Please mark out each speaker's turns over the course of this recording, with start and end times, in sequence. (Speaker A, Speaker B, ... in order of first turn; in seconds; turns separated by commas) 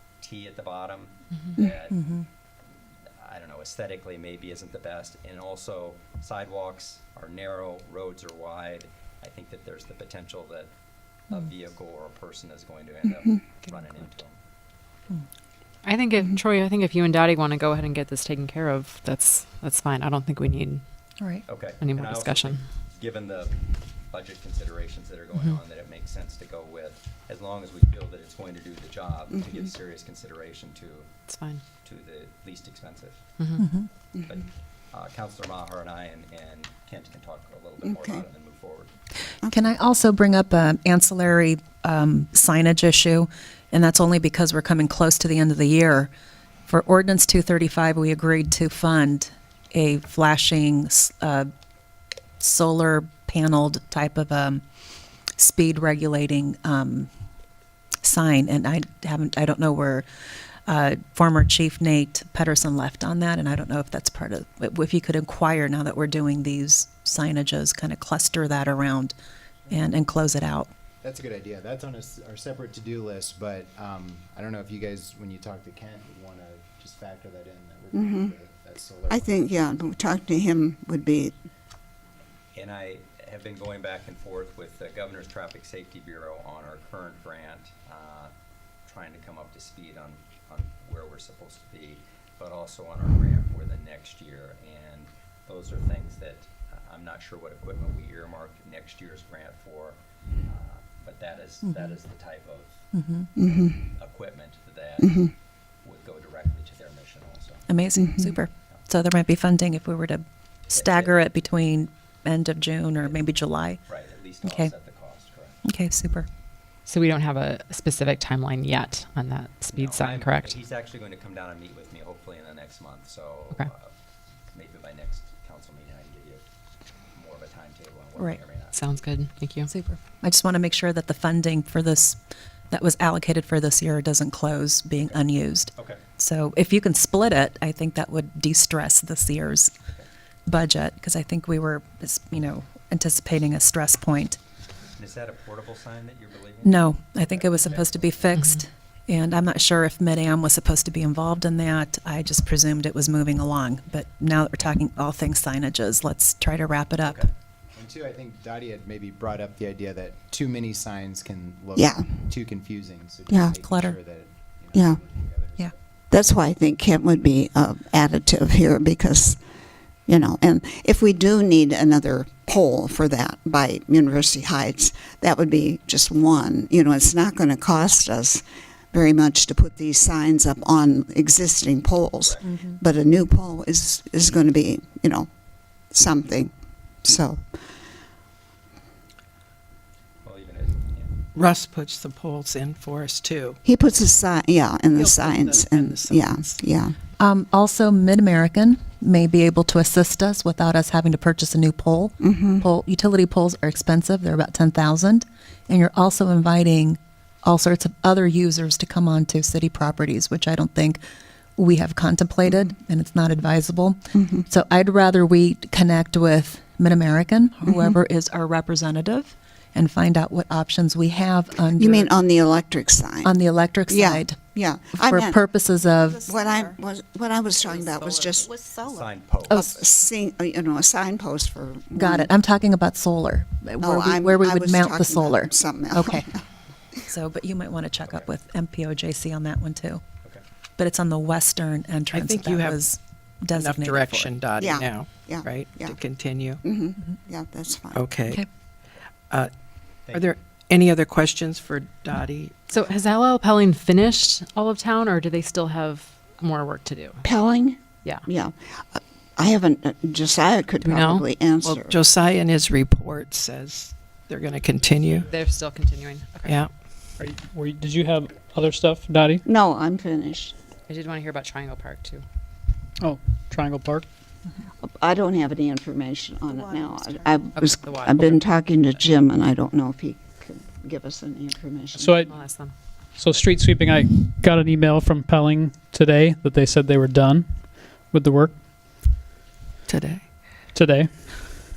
Speaker A: 0.2-2.0, Speaker B: 1.9-2.2, Speaker A: 3.2-10.7, Speaker A: 11.3-14.4, Speaker C: 15.8-20.8, Speaker A: 21.4-23.6, Speaker C: 21.8-22.6, Speaker A: 24.1-31.1, Speaker C: 31.3-31.6, Speaker A: 31.8-33.2, Speaker B: 33.6-33.9, Speaker A: 34.3-38.9, Speaker D: 37.8-38.2, Speaker B: 39.5-46.1, Speaker B: 46.7-51.5, Speaker B: 52.4-54.6, Speaker B: 55.4-57.1, Speaker B: 58.0-60.1, Speaker B: 60.6-69.1, Speaker B: 69.7-70.7, Speaker E: 71.0-79.5, Speaker D: 77.9-78.3, Speaker D: 79.1-81.3, Speaker A: 82.5-88.3, Speaker A: 88.8-102.9, Speaker B: 102.9-103.3, Speaker D: 103.4-103.9, Speaker A: 103.4-105.3, Speaker D: 105.0-105.3, Speaker A: 105.8-107.7, Speaker B: 107.7-113.8, Speaker D: 108.0-108.3, Speaker A: 110.7-111.2, Speaker A: 113.9-115.6, Speaker B: 114.4-114.7, Speaker B: 115.6-116.3, Speaker C: 116.8-120.5, Speaker A: 119.7-123.9, Speaker A: 124.5-126.5, Speaker A: 127.1-129.0, Speaker C: 128.7-129.7, Speaker B: 129.7-132.2, Speaker B: 132.7-139.7, Speaker A: 135.0-136.0, Speaker B: 140.5-144.4, Speaker A: 145.0-148.2, Speaker B: 146.6-157.2, Speaker C: 148.3-148.6, Speaker A: 157.0-157.3, Speaker E: 157.8-165.7, Speaker D: 161.8-162.3, Speaker B: 163.6-164.0, Speaker D: 164.7-165.0, Speaker D: 166.1-169.4, Speaker D: 170.1-185.3, Speaker A: 182.2-182.5, Speaker B: 182.4-182.8, Speaker D: 185.9-187.6, Speaker A: 190.2-191.3, Speaker F: 191.3-193.6, Speaker D: 193.6-196.9, Speaker F: 194.9-196.5, Speaker B: 197.2-211.0, Speaker D: 202.2-202.6, Speaker B: 211.6-222.1, Speaker D: 214.2-214.4, Speaker D: 217.7-217.9, Speaker D: 221.8-223.3, Speaker B: 223.2-224.4, Speaker D: 223.9-225.4, Speaker B: 224.9-226.2, Speaker G: 225.8-226.8, Speaker D: 226.2-228.5, Speaker G: 227.6-229.1, Speaker A: 228.8-229.6, Speaker D: 229.5-232.3, Speaker B: 231.9-236.3, Speaker D: 233.8-236.4, Speaker B: 237.1-240.0, Speaker A: 238.0-238.3, Speaker B: 240.8-244.3, Speaker F: 242.1-242.8, Speaker F: 243.5-246.6, Speaker D: 244.6-246.0, Speaker D: 246.6-248.1, Speaker F: 247.9-248.4, Speaker A: 250.1-250.3, Speaker F: 250.1-252.7, Speaker C: 252.7-257.2, Speaker D: 257.2-262.0, Speaker C: 260.8-261.3, Speaker F: 261.6-265.3, Speaker A: 264.8-265.2, Speaker C: 265.2-266.6, Speaker F: 266.4-266.7, Speaker H: 267.2-269.4, Speaker D: 269.4-270.5, Speaker C: 270.9-272.2, Speaker H: 273.0-274.1, Speaker D: 274.8-282.2, Speaker G: 276.4-277.5, Speaker C: 277.5-278.5, Speaker H: 281.9-282.3, Speaker C: 282.3-282.7, Speaker H: 283.1-288.6, Speaker F: 289.9-290.2, Speaker H: 290.7-291.1